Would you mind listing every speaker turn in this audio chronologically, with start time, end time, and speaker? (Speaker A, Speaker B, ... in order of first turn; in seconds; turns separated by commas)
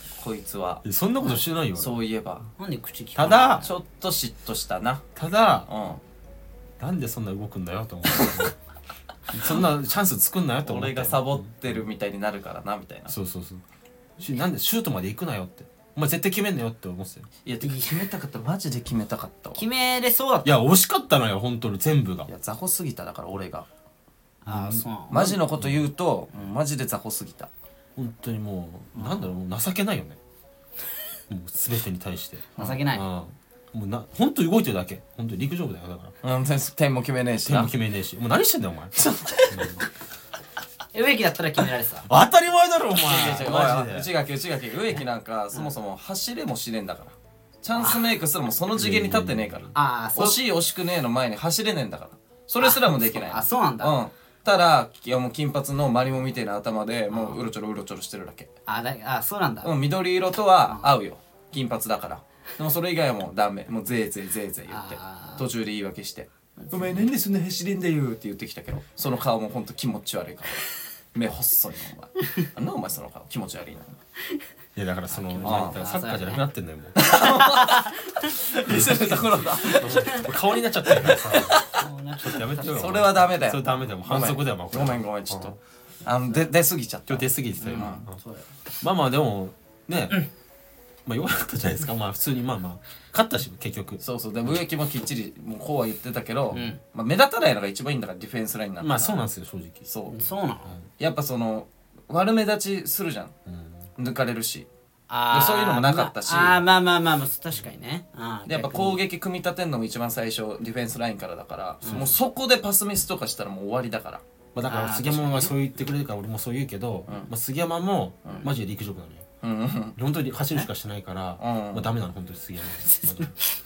Speaker A: 0.1-0.8, Speaker B: 0.8-2.0, Speaker A: 1.8-2.5, Speaker C: 2.6-3.7, Speaker B: 3.1-3.6, Speaker A: 3.6-5.0, Speaker B: 5.2-5.7, Speaker A: 5.7-6.0, Speaker B: 6.8-8.5, Speaker A: 8.2-8.4, Speaker B: 9.3-11.7, Speaker A: 10.6-13.1, Speaker B: 13.1-13.6, Speaker B: 14.2-17.3, Speaker A: 17.4-19.6, Speaker C: 17.6-18.0, Speaker C: 19.5-20.6, Speaker B: 20.4-22.3, Speaker A: 22.3-23.7, Speaker C: 24.4-25.3, Speaker B: 24.5-25.8, Speaker A: 25.1-27.5, Speaker B: 27.9-30.2, Speaker C: 28.9-29.2, Speaker B: 31.3-36.1, Speaker C: 32.6-33.0, Speaker A: 36.2-37.7, Speaker B: 37.4-39.9, Speaker A: 39.0-39.8, Speaker C: 40.9-42.1, Speaker B: 42.1-44.1, Speaker A: 43.0-58.5, Speaker B: 48.7-49.7, Speaker C: 49.7-50.4, Speaker C: 52.6-54.0, Speaker C: 57.1-57.4, Speaker C: 58.7-59.7, Speaker A: 59.6-74.0, Speaker C: 64.7-65.5, Speaker C: 66.6-67.0, Speaker B: 74.8-77.0, Speaker C: 75.1-76.4, Speaker A: 75.4-75.8, Speaker A: 77.0-81.8, Speaker C: 77.3-78.3, Speaker B: 78.7-81.7, Speaker C: 79.9-80.2, Speaker C: 81.7-82.9, Speaker B: 82.2-85.5, Speaker A: 82.6-88.0, Speaker B: 87.1-88.2, Speaker C: 87.6-88.5, Speaker B: 88.8-90.2, Speaker B: 91.0-94.0, Speaker A: 94.0-99.2, Speaker C: 96.5-96.8, Speaker B: 98.8-99.9, Speaker A: 99.8-100.2, Speaker C: 100.1-100.7, Speaker A: 101.0-103.3, Speaker B: 103.5-103.9, Speaker A: 104.0-104.7, Speaker C: 105.1-109.0, Speaker A: 105.3-106.6, Speaker A: 108.5-114.2, Speaker C: 111.8-112.1, Speaker B: 114.5-119.2, Speaker C: 114.7-115.5, Speaker A: 119.4-120.0, Speaker B: 120.0-123.3, Speaker A: 121.4-121.9, Speaker C: 122.8-123.3